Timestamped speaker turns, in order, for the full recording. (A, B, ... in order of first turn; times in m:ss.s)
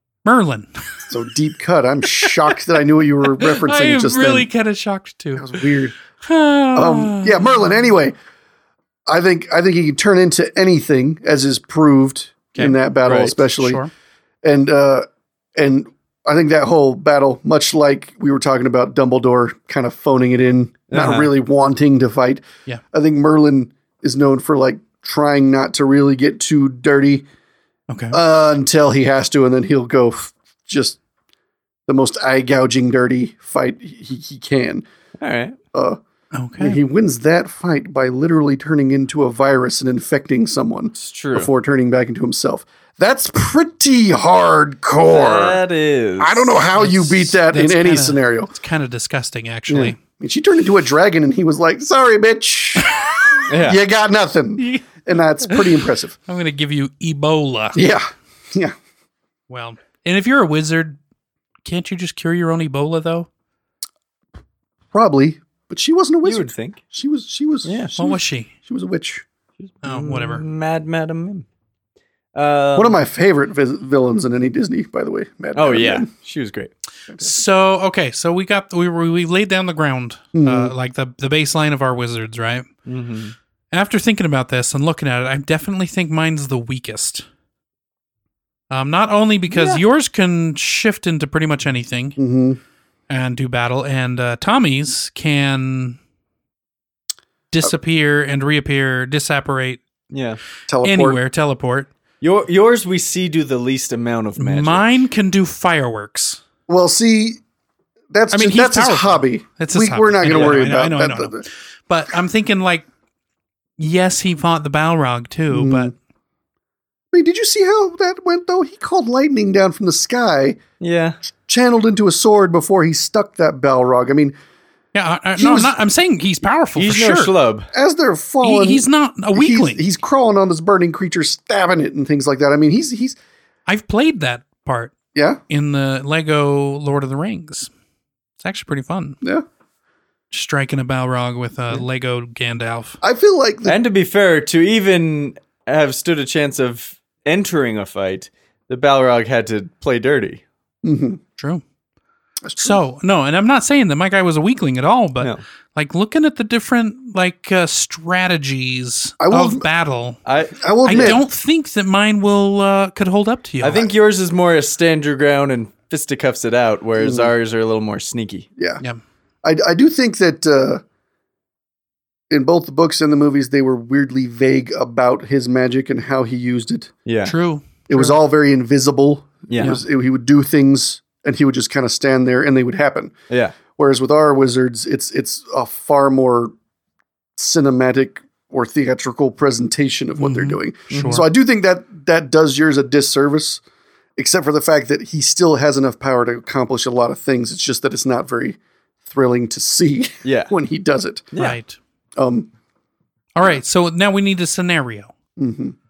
0:00.2-0:01.1 A
0:01.1-0:04.5 B
0:03.4-0:05.6 A
0:05.4-0:06.0 B
0:06.2-0:07.8 A
0:06.8-0:08.2 B
0:09.1-0:13.8 B
0:13.0-0:13.4 C
0:13.6-0:13.9 A
0:14.4-0:27.3 B
0:20.9-0:21.3 C
0:27.9-0:28.2 A
0:28.1-0:31.0 B
0:31.9-0:34.8 B
0:35.2-0:35.6 C
0:35.7-0:36.0 B
0:36.3-0:36.8 A
0:36.6-0:45.6 B
0:41.0-0:41.5 C
0:45.1-0:46.6 C
0:46.2-0:48.5 B
0:46.8-0:50.0 A
0:49.7-0:53.0 B
0:53.5-0:53.8 C
0:53.5-0:56.2 B
0:54.6-0:57.8 A
0:57.8-0:58.8 B
0:59.5-1:01.0 A
1:01.6-1:03.3 A
1:04.9-1:09.2 B
1:06.2-1:06.8 C
1:07.6-1:07.9 C
1:08.0-1:08.5 A
1:09.6-1:11.4 C
1:09.8-1:10.4 A
1:12.4-1:13.0 C
1:12.8-1:16.1 B
1:15.6-1:16.7 C
1:17.1-1:17.3 B
1:17.2-1:22.7 A
1:20.3-1:20.7 B
1:22.9-1:23.4 C
1:23.7-1:27.3 A
1:28.7-1:32.2 A
1:29.5-1:29.8 C
1:32.2-1:32.6 B
1:33.1-1:36.0 A
1:37.5-1:39.8 A
1:40.1-1:40.4 C
1:40.7-1:41.2 B
1:40.8-1:41.9 A
1:42.2-1:44.9 C
1:44.4-1:46.4 A
1:46.7-1:47.4 B
1:48.1-1:51.4 B
1:48.3-1:52.9 A
1:50.3-1:50.6 C
1:53.8-1:55.9 A
1:55.5-1:55.9 B
1:57.1-2:00.6 B
2:00.8-2:01.2 C
2:01.4-2:04.4 B
2:04.9-2:07.3 A
2:05.4-2:05.8 B
2:06.8-2:07.7 C
2:07.7-2:13.2 B
2:08.4-2:09.8 A
2:13.7-2:15.0 A
2:15.1-2:15.4 B
2:15.5-2:17.7 A
2:18.4-2:19.2 A
2:20.3-2:23.0 A
2:23.0-2:23.8 B
2:23.7-2:30.4 C
2:30.8-2:31.2 B
2:31.4-2:31.6 A
2:32.4-2:32.8 B
2:32.6-2:40.2 A
2:39.2-2:39.7 B
2:40.3-2:41.2 C
2:40.6-2:41.2 B
2:40.8-2:43.9 A
2:43.6-2:48.5 C
2:47.0-2:47.3 B
2:48.6-2:48.8 B
2:49.4-2:50.8 B
2:52.3-2:56.9 B
2:57.1-2:57.3 C
2:57.2-2:58.2 A
2:57.9-3:03.1 B
2:59.5-2:59.8 C
3:03.3-3:03.6 C
3:03.7-3:06.5 B
3:07.4-3:13.6 B
3:10.2-3:11.2 A
3:10.9-3:11.2 C
3:14.2-3:21.3 B
3:20.2-3:20.5 C
3:21.4-3:21.8 A
3:22.2-3:22.5 B
3:23.4-3:25.1 A
3:25.4-3:25.8 B